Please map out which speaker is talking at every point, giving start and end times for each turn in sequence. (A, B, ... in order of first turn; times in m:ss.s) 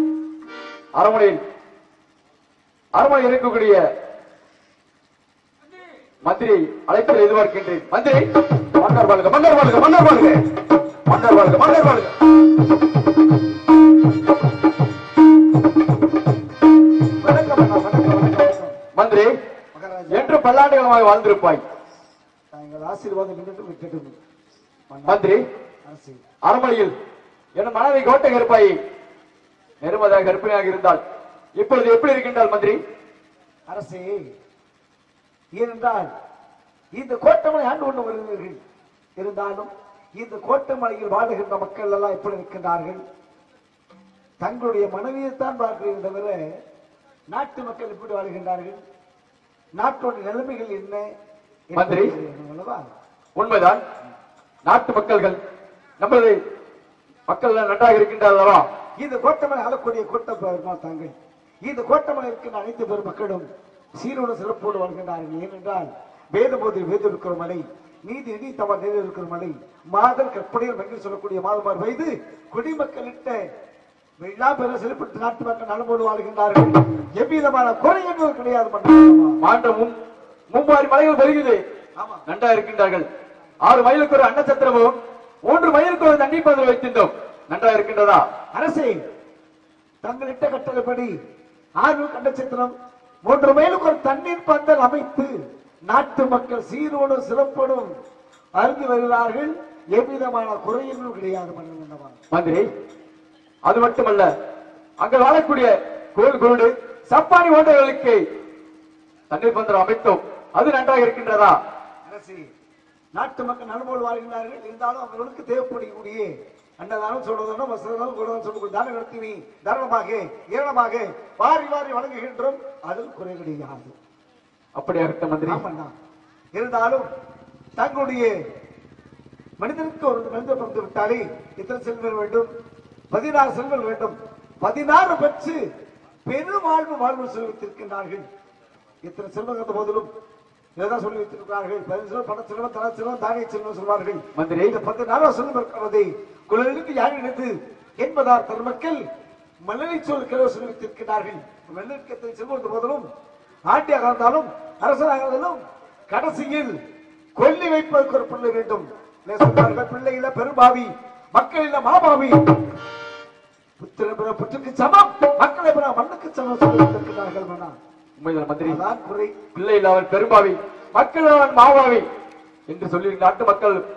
0:01.0-0:01.4 A
0:02.9-0:03.8 A
0:06.2-0:08.2 A
0:08.8-0:10.4 A
0:11.1-0:12.1 A
0:17.2-0:18.8 B
0:19.0-0:19.3 A
0:19.7-0:20.4 B
0:20.1-0:21.6 A
0:22.5-0:24.2 B
0:24.9-0:25.3 B
0:25.1-0:25.4 A
0:25.8-0:26.2 B
0:26.4-0:26.9 A
0:27.6-0:28.7 A
0:29.8-0:31.0 A
0:31.6-0:32.8 A
0:33.7-0:34.2 B
0:35.6-0:36.1 B
0:36.9-0:38.6 B
0:39.2-0:43.0 B
0:44.4-0:46.4 B
0:47.3-0:48.8 B
0:49.8-0:51.0 B
0:51.7-0:52.8 B
0:51.8-0:52.1 A
0:53.4-0:53.8 A
0:54.6-0:55.4 A
0:56.0-0:56.4 A
0:57.3-0:58.6 A
0:59.0-1:13.4 B
1:14.2-1:19.4 B
1:19.4-1:19.9 A
1:20.5-1:21.6 A
1:22.0-1:22.2 B
1:22.3-1:23.0 A
1:23.6-1:24.9 A
1:25.5-1:28.2 A
1:28.5-1:29.0 B
1:30.0-1:31.1 B
1:31.8-1:35.3 B
1:35.9-1:37.9 B
1:38.6-1:42.2 B
1:42.3-1:42.6 A
1:43.7-1:44.3 A
1:45.0-1:48.2 A
1:49.3-1:51.6 A
1:52.0-1:52.5 B
1:53.2-2:03.9 B
2:04.8-2:05.6 A
2:05.5-2:05.9 B
2:06.5-2:07.1 B
2:07.8-2:08.3 B
2:09.6-2:12.5 B
2:13.1-2:15.6 B
2:16.3-2:18.3 B
2:19.0-2:20.1 B
2:20.8-2:29.1 B
2:24.4-2:24.8 A
2:29.6-2:33.1 B
2:33.7-2:36.8 B
2:37.4-2:42.4 B
2:43.8-2:47.8 B
2:48.2-2:48.8 A
2:48.6-2:49.4 B
2:49.6-2:52.0 A
2:52.7-2:53.8 A